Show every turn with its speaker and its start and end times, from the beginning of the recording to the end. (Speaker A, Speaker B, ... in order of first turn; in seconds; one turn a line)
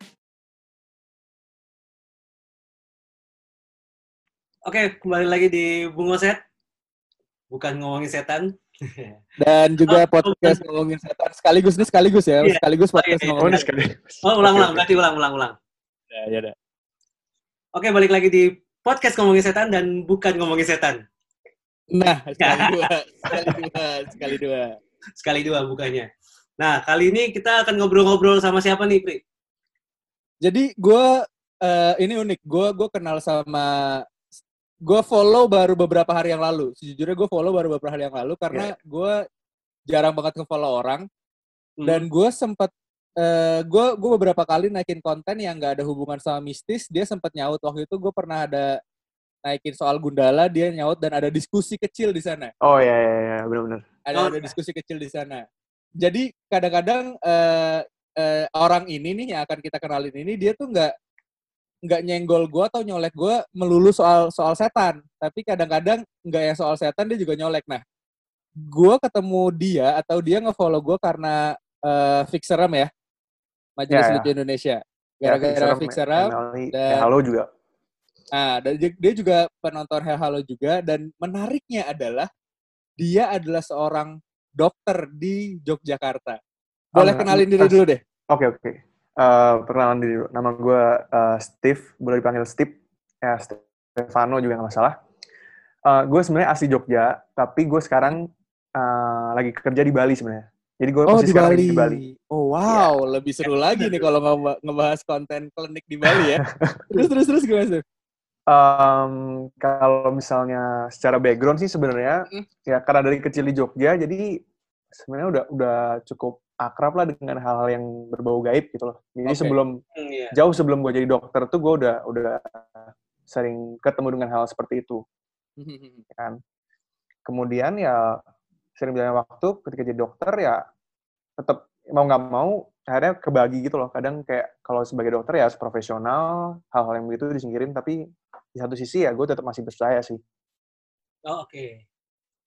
Speaker A: 4.7-6.4
Speaker A: 7.5-9.2
Speaker B: 9.4-13.6
Speaker A: 9.8-10.6
Speaker A: 12.4-13.7
Speaker C: 13.4-15.0
Speaker A: 14.2-15.5
Speaker B: 16.1-16.5
Speaker A: 17.7-21.0
Speaker B: 21.9-24.8
Speaker A: 22.4-23.6
Speaker A: 25.2-26.1
Speaker A: 26.6-29.2
Speaker B: 30.4-31.1
Speaker B: 31.6-34.0
Speaker B: 34.9-39.2
Speaker B: 39.9-41.0
Speaker A: 41.8-42.0
Speaker B: 41.9-48.8
Speaker B: 49.4-52.5
Speaker C: 52.6-53.8
Speaker B: 54.0-55.4
Speaker A: 54.1-54.5
Speaker B: 56.0-60.9
Speaker B: 61.9-67.8
Speaker B: 68.7-72.9
Speaker B: 73.8-77.1
Speaker C: 73.9-74.3
Speaker C: 75.2-77.5
Speaker B: 78.3-82.3
Speaker B: 83.0-86.4
Speaker C: 86.9-87.7
Speaker B: 87.0-88.0
Speaker C: 88.3-94.9
Speaker C: 95.8-102.0
Speaker B: 101.1-107.8
Speaker C: 106.0-107.1
Speaker C: 108.5-114.4
Speaker C: 114.9-119.8
Speaker B: 119.3-119.5
Speaker A: 120.0-120.3
Speaker C: 120.3-125.0
Speaker B: 125.6-126.0
Speaker C: 127.2-128.2
Speaker C: 128.8-130.6
Speaker C: 131.4-138.0
Speaker C: 138.5-140.2
Speaker A: 141.3-141.8